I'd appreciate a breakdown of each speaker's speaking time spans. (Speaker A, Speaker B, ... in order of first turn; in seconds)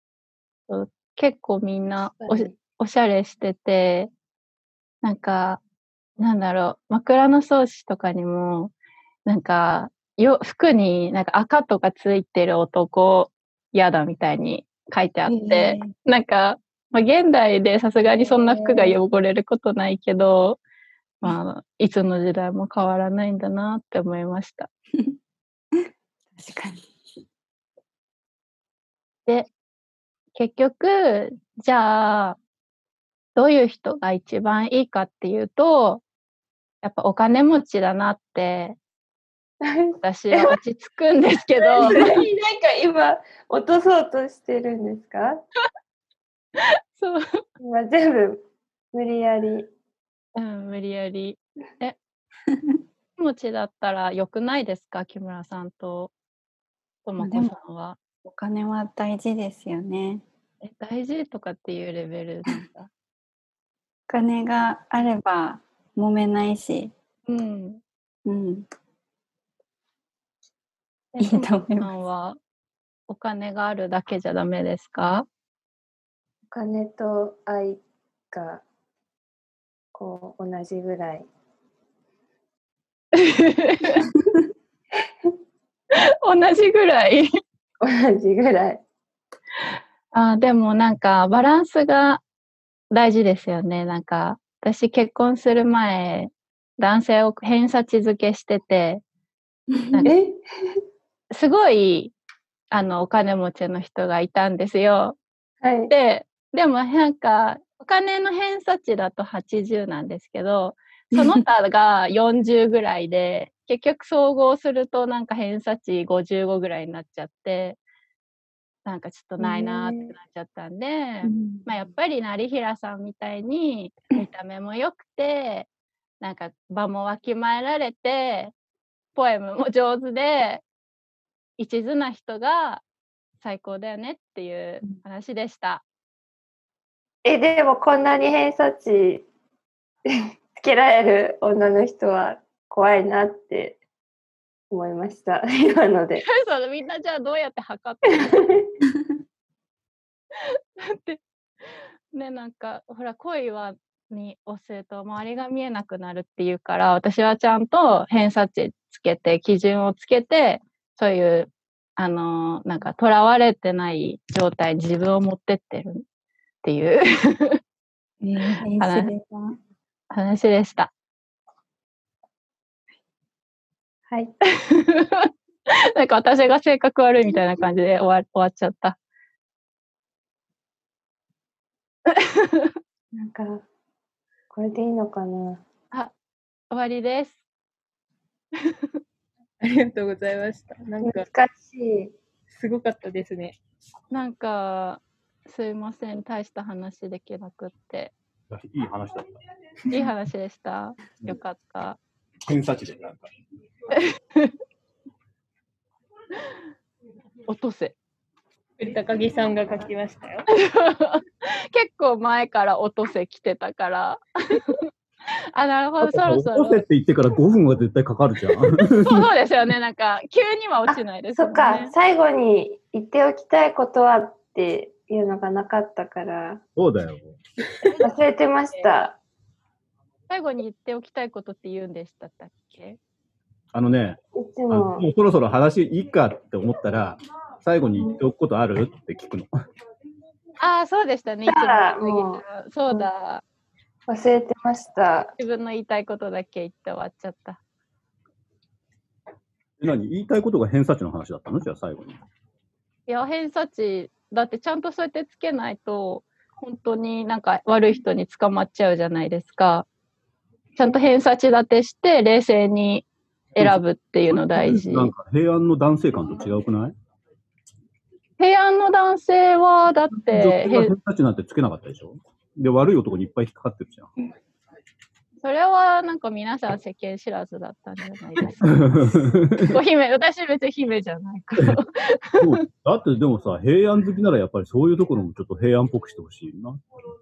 Speaker A: 0.7-4.1, 5.0-5.6, 6.2-8.7, 9.3-20.6, 21.2-24.7, 30.3-32.4, 33.4-36.0, 36.8-38.8, 40.0-42.2, 46.6-47.4, 50.4-52.0, 53.2-56.1, 57.0-58.0, 60.6-62.9, 67.3-67.8, 71.1-72.4, 73.1-75.3, 83.2-84.0, 86.2-87.3, 90.1-92.2, 92.9-99.0, 101.3-102.1, 102.7-105.2, 105.9-117.8, 118.8-125.7, 126.2-128.5, 129.1-130.6, 131.6-132.8, 133.4-135.8, 146.3-148.5, 150.6-166.0, 166.6-167.6, 168.5-169.1, 170.1-170.9, 174.7-175.3, 175.9-179.0, 182.1-182.7, 186.7-187.4, 194.1-198.1, 199.9-202.0, 203.9-204.5, 207.5-207.9, 210.5-214.8, 215.5-216.8, 219.0-221.9, 230.3-233.0, 240.6-243.4, 245.4-247.6, 253.1-259.9, 260.8-265.1, 268.4-270.9, 275.4-278.9, 279.6-282.5
Speaker B: 2.1-2.5, 18.1-18.9, 39.6-40.5, 41.7-45.4, 47.6-49.7, 76.5-77.8, 78.3-78.6, 79.9-81.3, 87.8-88.8, 100.0-100.4, 105.6-105.9, 119.5-120.1, 137.2-139.3, 140.6-143.8, 144.7-146.2, 183.2-183.6, 184.5-185.6, 191.0-192.2, 220.9-226.6, 228.0-229.2, 234.4-235.1, 241.5-243.1, 244.1-245.3
Speaker C: 15.3-15.9, 26.4-26.8, 57.2-57.5, 58.2-60.2, 64.1-66.9, 68.3-68.7, 71.2-71.9, 99.7-100.1, 111.2-111.4, 121.2-121.7, 168.2-169.6
Speaker D: 189.6-191.3, 192.5-193.6, 208.8-210.5
Speaker E: 198.5-199.4, 202.5-203.3, 216.0-219.3, 226.8-227.4, 233.7-239.5, 249.8-252.2, 263.6-266.9, 270.1-274.1, 278.6-279.7, 282.4-286.8